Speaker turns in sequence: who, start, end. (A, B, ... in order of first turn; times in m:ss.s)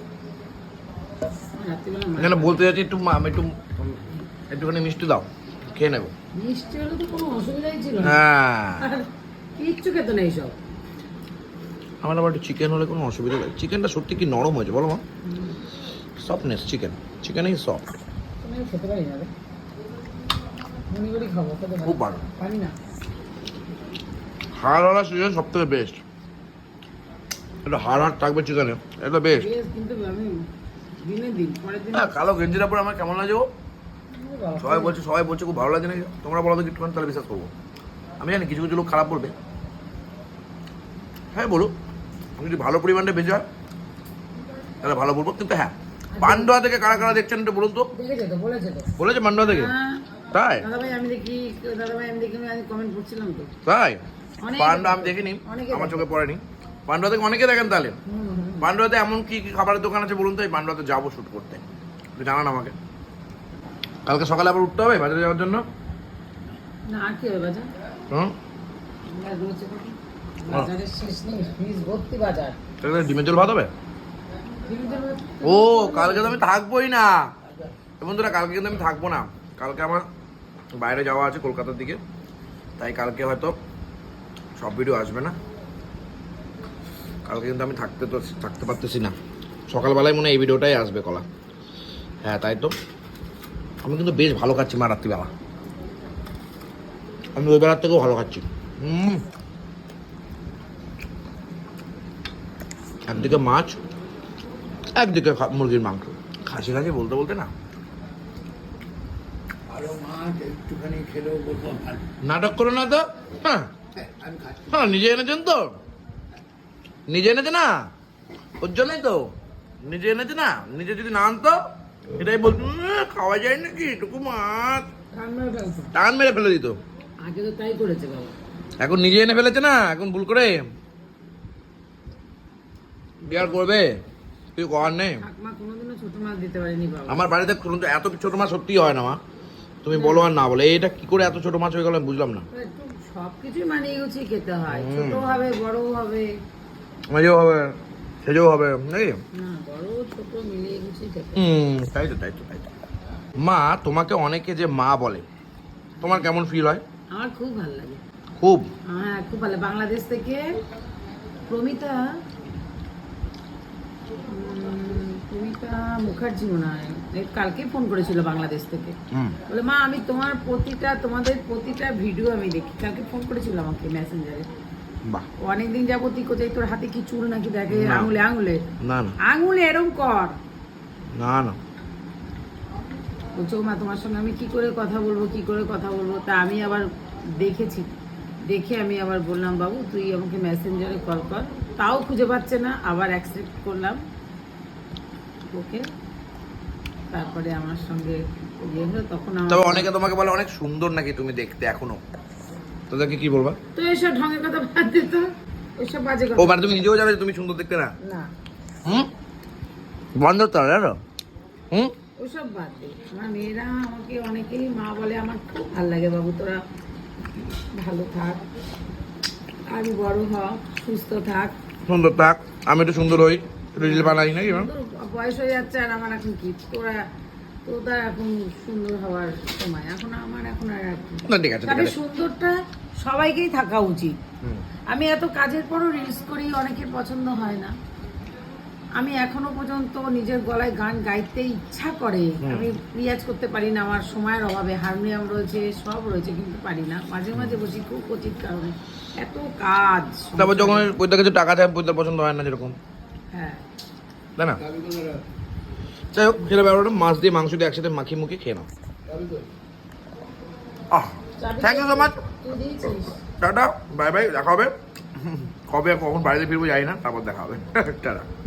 0:01.6-0:02.6 A
0:02.2-0:06.1 B
0:06.3-0:08.2 A
0:08.0-0:08.9 B
0:08.8-0:10.5 A
0:12.0-0:15.0 B
0:15.2-0:15.6 A
0:16.2-0:17.8 B
0:18.4-0:19.3 A
0:20.9-0:22.7 A
0:21.8-0:22.2 B
0:24.6-0:26.0 B
0:27.6-0:29.5 B
0:29.3-0:30.5 A
0:31.0-0:32.1 A
0:31.9-0:33.5 B
0:34.1-0:35.0 A
0:34.6-0:37.5 B
0:38.2-0:39.4 B
0:41.3-0:41.7 B
0:42.4-0:43.4 B
0:44.8-0:47.9 B
0:46.1-0:47.2 A
0:47.9-0:53.5 A
0:49.0-0:49.7 B
0:50.3-0:50.6 B
0:53.6-0:54.0 B
0:54.4-0:56.1 A
0:54.6-0:58.0 B
0:58.1-0:58.7 A
0:58.6-1:01.6 B
1:02.2-1:02.8 B
1:04.0-1:05.6 B
1:06.9-1:07.7 A
1:09.1-1:12.6 A
1:12.8-1:13.7 B
1:14.6-1:16.4 A
1:15.4-1:17.3 B
1:18.0-1:20.1 B
1:20.7-1:22.0 B
1:22.8-1:23.6 B
1:24.6-1:25.4 B
1:27.2-1:29.1 B
1:29.7-1:31.3 B
1:32.2-1:32.7 B
1:33.8-1:35.3 B
1:37.4-1:39.2 B
1:43.1-1:43.8 B
1:44.9-1:47.5 B
1:49.7-1:52.1 C
1:52.2-1:53.7 B
1:54.0-1:54.7 C
1:54.7-1:55.8 B
1:57.1-1:57.9 B
1:58.6-1:59.3 B
1:59.8-2:01.6 B
2:02.2-2:04.8 B
2:05.1-2:05.9 A
2:05.9-2:06.8 B
2:07.2-2:08.4 A
2:08.8-2:10.6 B
2:13.2-2:13.9 B
2:13.2-2:13.5 A
2:14.5-2:15.2 B
2:14.8-2:17.3 A
2:17.1-2:19.2 B
2:19.8-2:22.5 B
2:19.9-2:20.3 A
2:22.5-2:26.3 A
2:24.7-2:25.3 B
2:27.1-2:29.2 B
2:29.3-2:31.4 A
2:31.4-2:32.7 B
2:33.4-2:35.2 B
2:36.0-2:36.3 A
2:36.0-2:36.8 B
2:37.1-2:38.0 A
2:38.4-2:38.7 B
2:38.9-2:40.6 A
2:41.5-2:42.2 A
2:44.3-2:54.5 A
2:49.1-2:49.4 B
2:55.4-2:58.6 A
2:57.7-2:58.1 B
2:58.8-2:59.2 B
2:59.2-3:00.4 A
3:01.2-3:01.6 B
3:03.4-3:07.9 A
3:08.5-3:14.0 A
3:15.5-3:15.9 A
3:17.1-3:19.9 A
3:19.5-3:22.0 B
3:22.9-3:23.6 B
3:23.7-3:26.9 A
3:26.4-3:27.9 B
3:28.0-3:28.3 A
3:30.2-3:31.0 B
3:32.2-3:36.6 A
3:37.6-3:38.4 A
3:39.7-3:41.6 A
3:41.8-3:44.7 B
3:43.8-3:47.0 A
3:47.6-3:54.2 A
3:51.3-3:51.9 B
3:54.9-3:57.7 A
3:59.0-4:10.9 A
4:02.4-4:02.7 B
4:10.4-4:12.7 B
4:13.3-4:13.6 A
4:14.4-4:14.6 B
4:14.6-4:15.2 C
4:16.1-4:18.7 B
4:19.1-4:19.4 C
4:20.9-4:22.2 B
4:21.4-4:23.2 A
4:23.4-4:28.3 B